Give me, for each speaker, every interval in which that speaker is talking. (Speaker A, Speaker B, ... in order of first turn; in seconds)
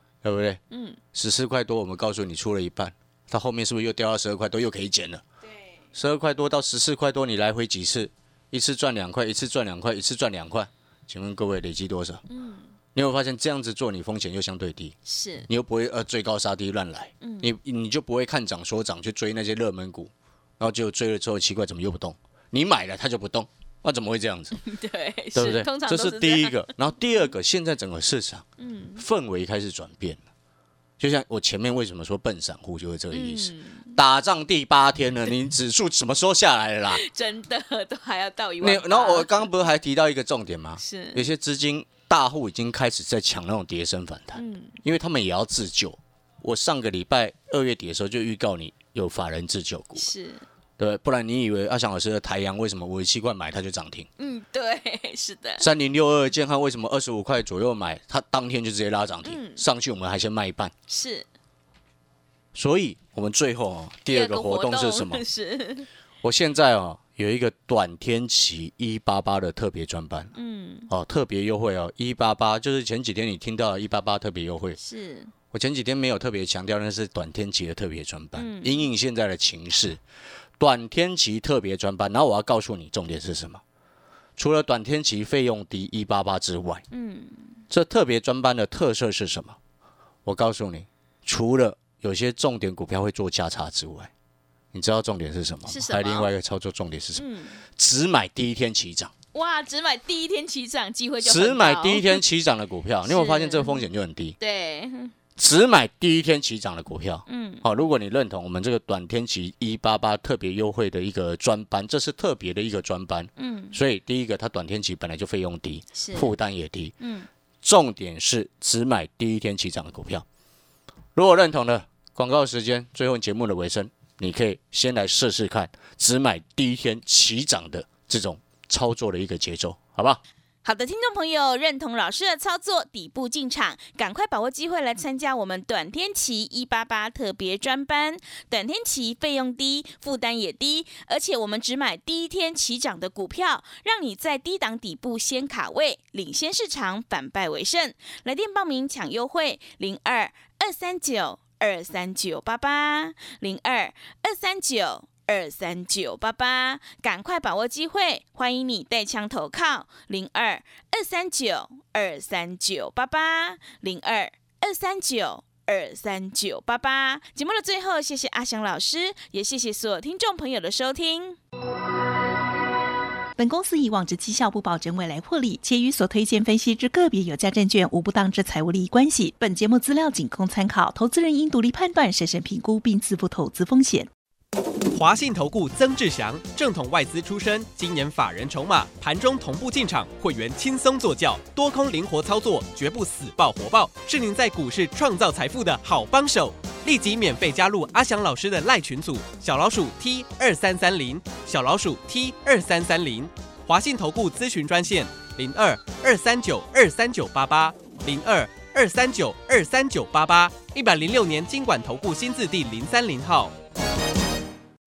Speaker A: 0.2-0.6, 1.1-5.2, 5.9-12.2, 12.9-24.6, 25.3-28.4, 29.0-30.2, 31.0-37.0, 38.6-50.1, 50.8-54.1, 55.6-60.7, 62.5-65.2, 66.2-70.3, 70.9-74.8, 75.5-80.0, 80.6-83.6, 84.4-86.8, 87.7-89.6, 90.2-94.1, 94.7-99.1, 101.2-104.3, 105.4-116.9, 117.6-120.2, 121.1-130.2
Speaker B: 0.7-1.0, 5.4-5.7, 12.3-12.7, 15.1-15.5, 17.2-17.5, 24.6-26.7, 28.6-29.0, 33.1-34.0, 36.9-39.5, 40.8-41.3, 44.3-44.8, 50.0-50.4, 54.2-55.7, 59.2-59.6, 60.9-61.3, 64.1-65.9, 70.3-70.9, 74.8-75.3, 78.3-78.9, 86.9-87.6, 95.6-96.3, 97.1-97.6, 99.3-102.2, 103.0-103.8, 104.4-105.1, 107.3-107.7, 113.4-113.8, 115.9-116.3, 117.0-117.3, 130.6-171.4
Speaker C: 173.4-184.1
Speaker D: 184.9-213.5